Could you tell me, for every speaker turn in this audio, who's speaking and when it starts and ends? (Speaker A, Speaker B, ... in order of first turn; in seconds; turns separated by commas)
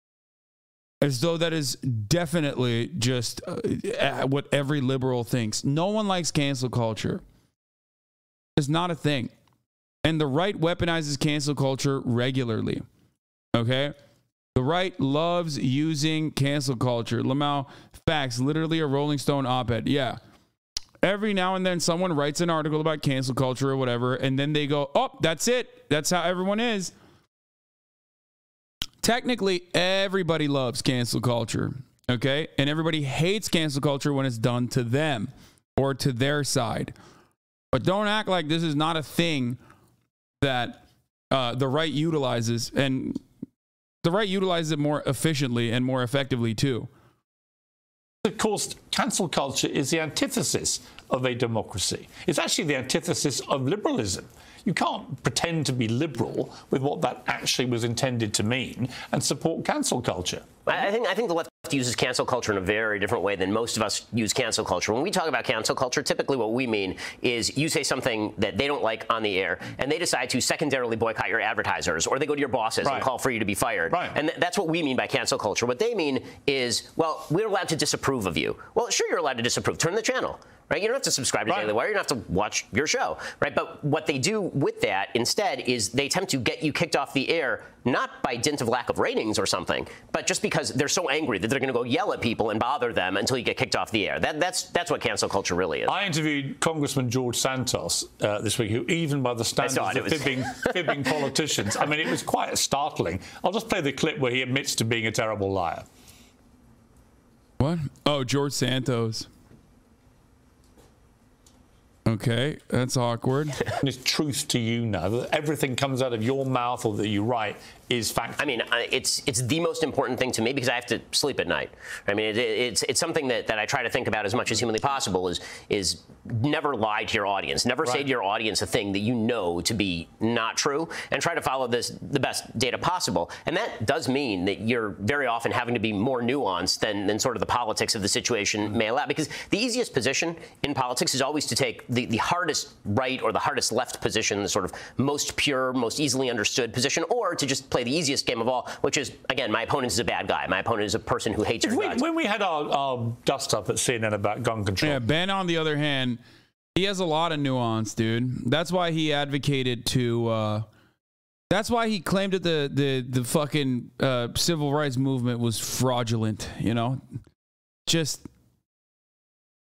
Speaker A: 1.0-7.2, Speaker A: 8.6-9.3, Speaker A: 10.0-12.8, Speaker A: 13.5-13.9, Speaker A: 14.6-20.2, Speaker A: 21.0-26.9, Speaker A: 29.0-37.0, Speaker A: 37.7-39.6, Speaker A: 40.4-43.2, Speaker A: 44.0-46.9, Speaker B: 48.2-60.6, Speaker C: 60.7-95.9, Speaker B: 72.8-73.1, Speaker B: 73.9-74.2, Speaker B: 81.5-81.8, Speaker B: 95.9-105.9, Speaker C: 99.6-101.2, Speaker A: 107.6-109.3, Speaker A: 112.1-113.7, Speaker B: 113.8-118.6, Speaker C: 118.4-152.0, Speaker B: 151.6-155.0, Speaker A: 154.8-156.2, Speaker A: 156.8-160.7, Speaker A: 161.5-167.0, Speaker A: 167.9-168.3